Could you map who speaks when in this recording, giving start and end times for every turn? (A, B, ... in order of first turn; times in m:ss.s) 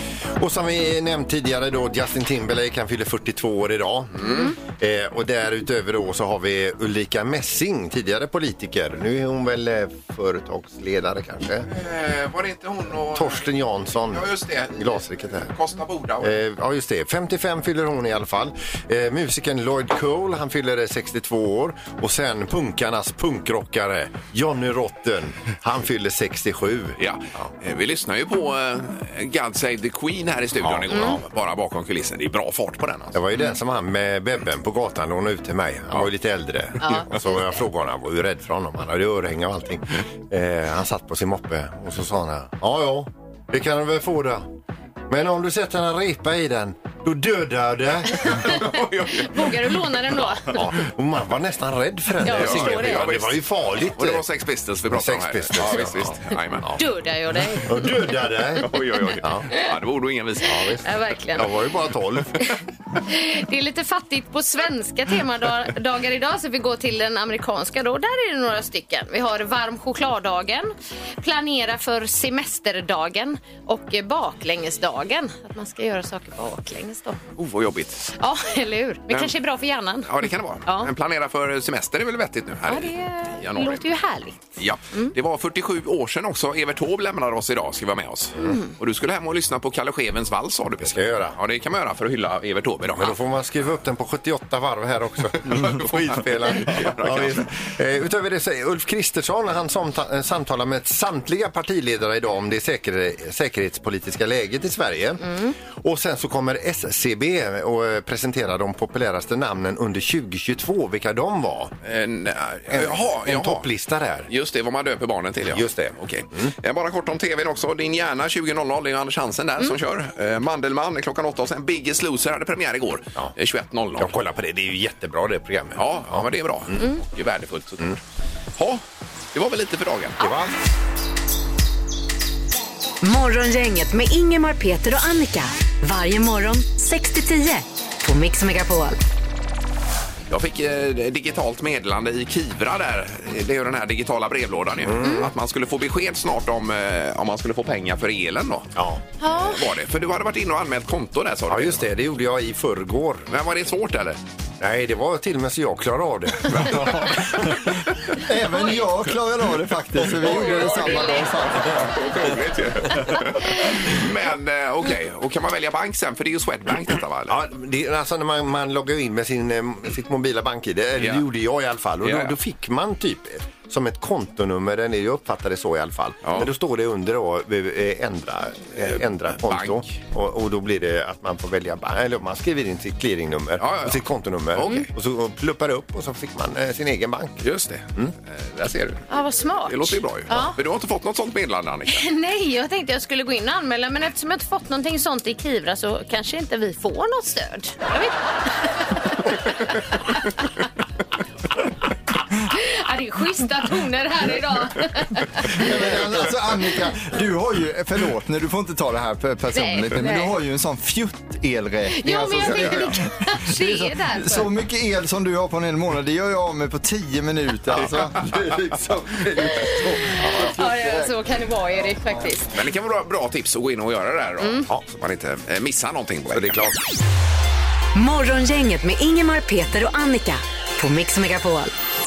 0:00.4-0:11.7 A
0:04.1-0:04.5 B
0:04.2-0:04.6 C
0:11.7-0:13.5 B
0:13.1-0:15.5 A
0:14.0-0:16.4 B
0:16.2-0:27.5 A
0:27.0-0:33.2 B
0:30.6-0:31.2 A
0:30.9-0:31.2 C
0:33.1-0:44.5 A
0:36.8-0:37.2 C
0:45.1-0:48.5 A
0:48.1-0:50.7 C
0:48.2-0:49.7 B
0:50.4-0:54.2 A
0:52.2-0:53.1 C
0:52.3-0:56.7 B
0:54.9-0:56.8 A
0:56.7-0:58.1 C
0:57.6-0:59.5 A
0:58.6-1:00.6 B
1:00.4-1:02.4 A
1:00.8-1:01.5 C
1:03.0-1:17.2 C
1:17.4-1:18.1 B
1:18.2-1:20.9 C
1:20.0-1:23.9 B
1:22.7-1:24.4 C
1:24.6-1:33.2 B
1:28.4-1:28.7 C
1:30.8-1:31.4 A
1:32.9-1:51.7 A
1:35.4-1:37.7 B
1:51.8-1:53.7 B
1:52.7-1:54.3 A
1:54.3-2:04.1 B
1:55.5-1:56.5 A
2:04.0-2:06.8 A
2:05.8-2:08.0 B
2:08.6-2:08.8 B
2:09.3-2:10.2 B
2:10.2-2:10.5 A
2:13.0-2:19.0 D
2:20.3-2:28.7 B
2:24.8-2:25.3 A
2:28.7-2:29.0 A
2:29.2-2:29.6 C
2:29.4-2:31.9 B
2:31.5-2:33.3 A
2:33.3-2:34.2 B
2:34.6-2:37.6 A
2:36.5-2:37.5 B
2:38.2-2:41.9 E
2:38.5-2:38.9 C
2:40.2-2:41.6 C
2:40.2-2:47.4 B
2:43.0-2:43.5 C
2:47.3-3:07.4 A
2:51.0-2:51.2 B
2:52.0-2:52.3 B
2:56.2-2:56.5 B
2:59.4-2:59.9 B
3:03.6-3:04.9 B
3:07.4-3:09.1 B
3:09.1-3:10.6 C
3:09.6-3:12.0 B
3:11.9-3:20.6 C
3:22.4-3:25.7 C
3:25.4-3:41.2 E
3:29.5-3:30.3 C
3:31.9-3:34.5 C
3:40.1-3:40.5 A
3:40.3-3:42.5 C
3:42.5-3:46.7 B
3:44.4-3:44.7 C
3:46.3-3:46.8 A
3:47.9-3:51.7 D